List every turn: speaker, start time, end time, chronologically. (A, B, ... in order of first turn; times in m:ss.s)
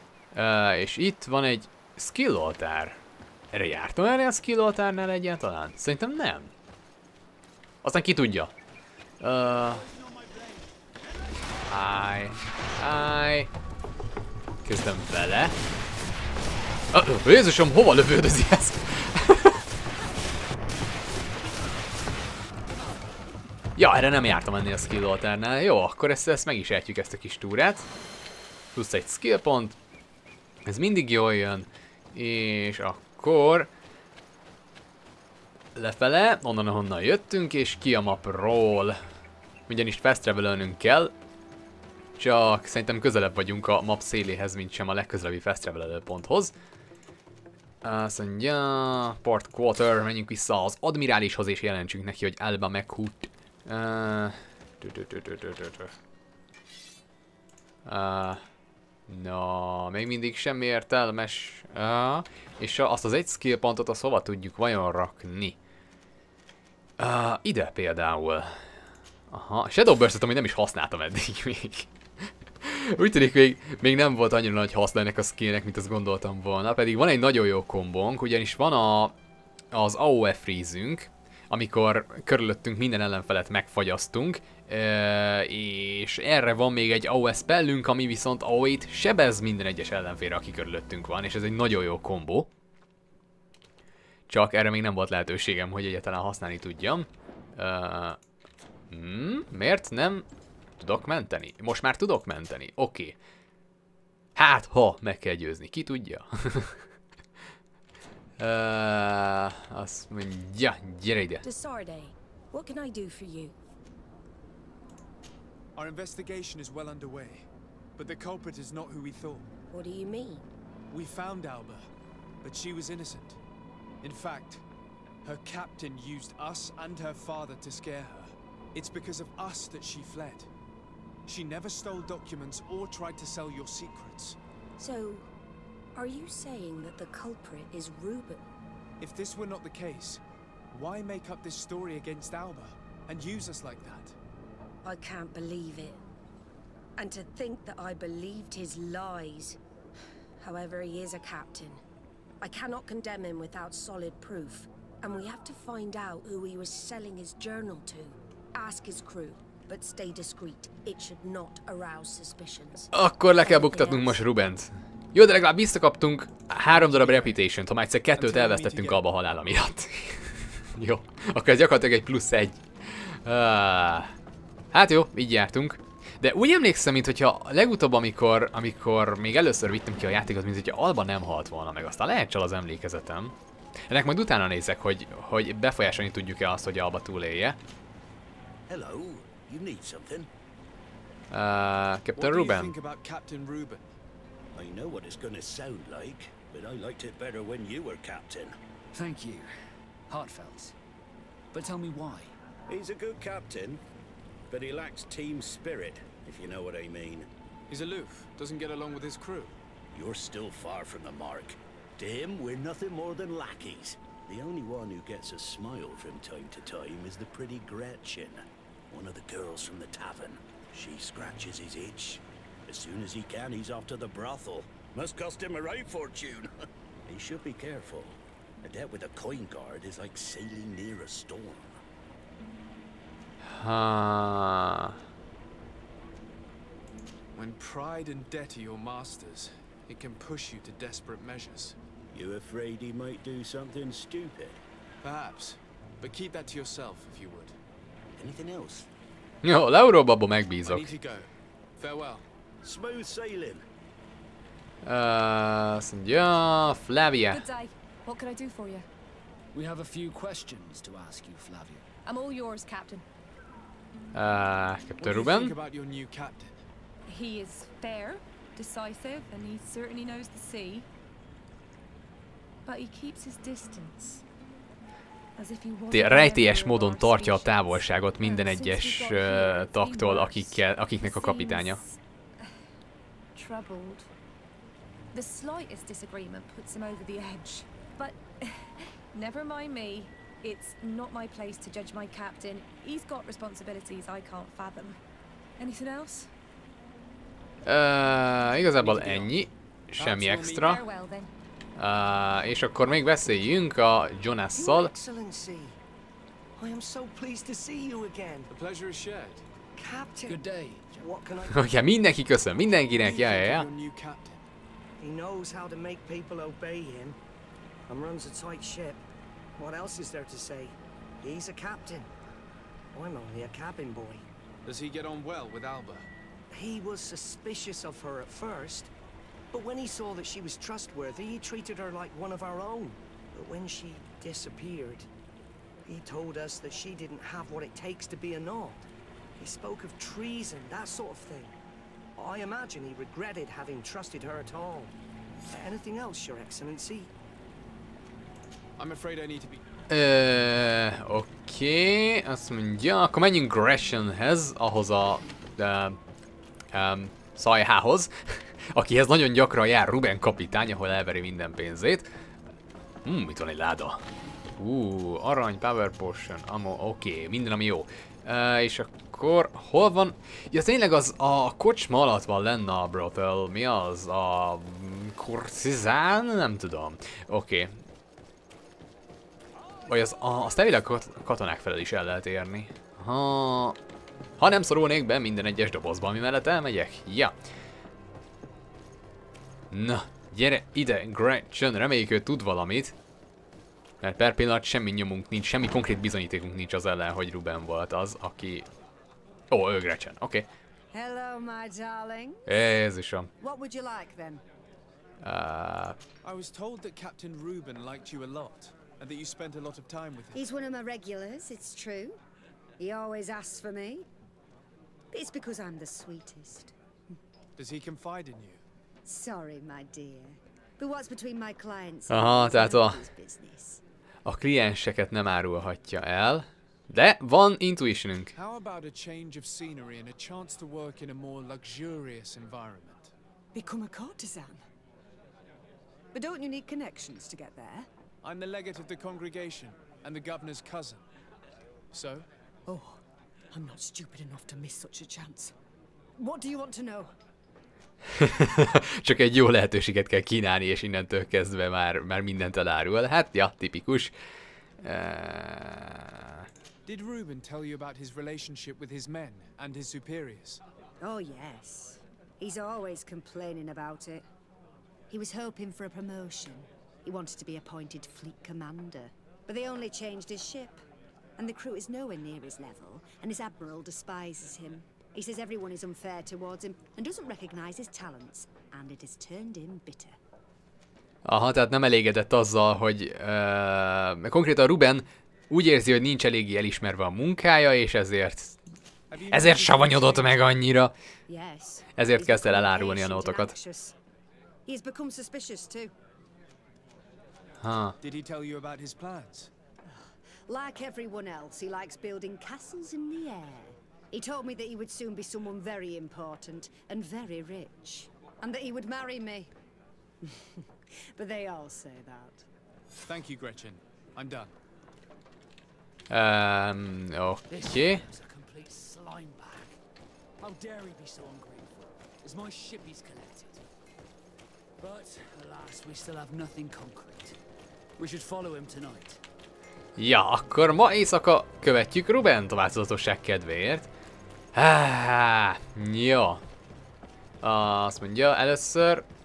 0:00.3-0:03.0 A
0:03.5-0:06.5 A
0:07.8-0:08.5 A
0:09.2-0:09.9 A
0:09.4-0:10.7 B
0:11.7-0:13.5 A
0:14.6-0:15.6 A
0:16.9-0:19.6 A
0:23.8-0:27.9 A
0:28.7-0:29.8 A
0:30.7-0:33.7 A
0:35.8-0:39.0 A
0:39.7-0:41.1 A
0:42.2-0:46.5 A
0:47.8-0:55.9 A
0:57.8-0:58.4 A
0:59.1-1:05.6 A
1:07.0-1:08.6 A
1:09.3-1:11.9 A
1:12.6-1:19.2 A
1:19.7-1:32.5 A
1:34.3-1:38.2 A
1:38.9-1:40.3 A
1:40.8-1:43.2 A
1:44.4-1:46.8 A
1:48.4-1:51.4 A
1:51.4-1:53.6 C
1:55.8-1:59.5 D
1:59.7-2:00.5 C
2:00.9-2:01.9 D
2:02.4-2:03.4 D
2:04.0-2:04.6 D
2:05.2-2:10.5 D
2:11.3-2:14.4 D
2:14.8-2:15.3 C
2:16.0-2:18.5 C
2:19.0-2:24.2 D
2:24.8-2:26.0 C
2:27.0-2:29.6 C
2:30.4-2:31.8 C
2:32.4-2:44.2 C
2:42.9-2:54.1 A
2:46.7-2:47.4 D
2:48.2-2:49.0 D
2:54.7-3:03.4 A
3:03.9-3:07.6 A
3:08.7-3:10.3 E
3:11.3-3:12.7 A
3:12.2-3:13.8 D
3:14.5-3:18.6 E
3:18.9-3:19.5 B
3:20.1-3:20.8 B
3:21.5-3:22.3 B
3:22.7-3:23.8 E
3:24.5-3:27.3 E
3:27.7-3:29.6 D
3:29.9-3:46.5 E
3:47.1-3:51.8 E
3:53.5-3:55.0 A
3:57.4-4:01.8 D
4:02.1-4:04.6 E
4:05.0-4:07.6 D
4:08.2-4:08.9 E
4:09.4-4:10.9 A
4:10.6-4:12.2 D
4:12.6-4:13.6 E
4:14.8-4:17.5 A
4:17.3-4:18.9 F
4:19.5-4:21.9 B
4:22.1-4:23.0 F
4:24.1-4:25.6 A
4:25.0-4:26.6 D
4:27.1-4:30.9 F
4:32.7-4:34.2 F
4:35.4-4:42.0 F
4:35.9-4:41.8 A
4:43.4-4:44.1 F
4:45.1-4:55.0 F
4:55.6-4:56.3 F
4:57.6-5:00.8 A
4:58.6-5:00.8 D
5:00.6-5:01.3 F
5:01.8-5:04.9 A
5:04.5-5:05.8 G
5:06.6-5:08.5 G
5:08.5-5:09.4 D
5:09.8-5:11.6 G
5:10.2-5:11.2 B
5:11.5-5:13.7 A
5:12.9-5:14.4 D
5:15.0-5:17.2 G
5:17.9-5:19.0 G
5:19.6-5:22.1 G
5:22.9-5:24.3 G
5:24.7-5:26.1 D
5:26.5-5:28.9 G
5:29.5-5:35.1 G
5:35.9-5:38.8 G
5:39.4-5:41.6 G
5:42.2-5:44.9 G
5:45.5-5:47.1 G
5:48.8-5:49.6 D
5:49.9-5:56.0 A
5:56.7-6:02.1 A
6:03.0-6:04.0 A
6:04.6-6:17.8 A
6:19.9-6:23.8 A
6:24.4-6:27.3 A
6:29.7-6:33.0 A
6:34.0-6:38.7 A
6:39.5-6:40.5 A
6:40.9-6:42.6 H
6:42.5-6:43.3 A
6:43.4-6:44.4 H
6:45.2-6:46.0 A
6:46.2-6:50.4 D
6:50.3-6:52.2 H
6:52.8-6:54.1 H
6:55.1-6:56.7 H
6:57.6-6:58.6 D
6:59.0-7:03.8 H
7:02.1-7:03.0 A
7:04.3-7:08.3 A
7:08.3-7:13.1 D
7:13.5-7:14.6 H
7:16.1-7:17.9 H
7:18.2-7:21.0 D
7:21.9-7:22.3 D
7:22.7-7:25.5 H
7:26.2-7:27.1 H
7:28.1-7:34.1 A
7:34.8-7:36.5 A
7:36.9-7:40.6 D
7:41.0-7:44.2 H
7:45.1-7:50.8 H
7:51.4-8:00.2 H
8:01.2-8:08.6 A
8:09.1-8:10.5 D
8:09.3-8:10.9 A
8:11.3-8:14.0 H
8:12.0-8:13.5 A
8:14.7-8:15.9 H
8:17.6-8:18.0 A
8:18.0-8:19.5 D
8:19.9-8:29.5 H
8:30.2-8:32.5 H
8:33.1-8:34.5 D
8:36.1-8:38.0 A
8:37.5-8:39.8 B
8:40.4-8:43.6 B
8:44.8-8:47.4 B
8:48.0-8:49.2 B
8:50.0-8:53.9 A
8:54.6-8:56.4 A
8:57.4-8:59.0 A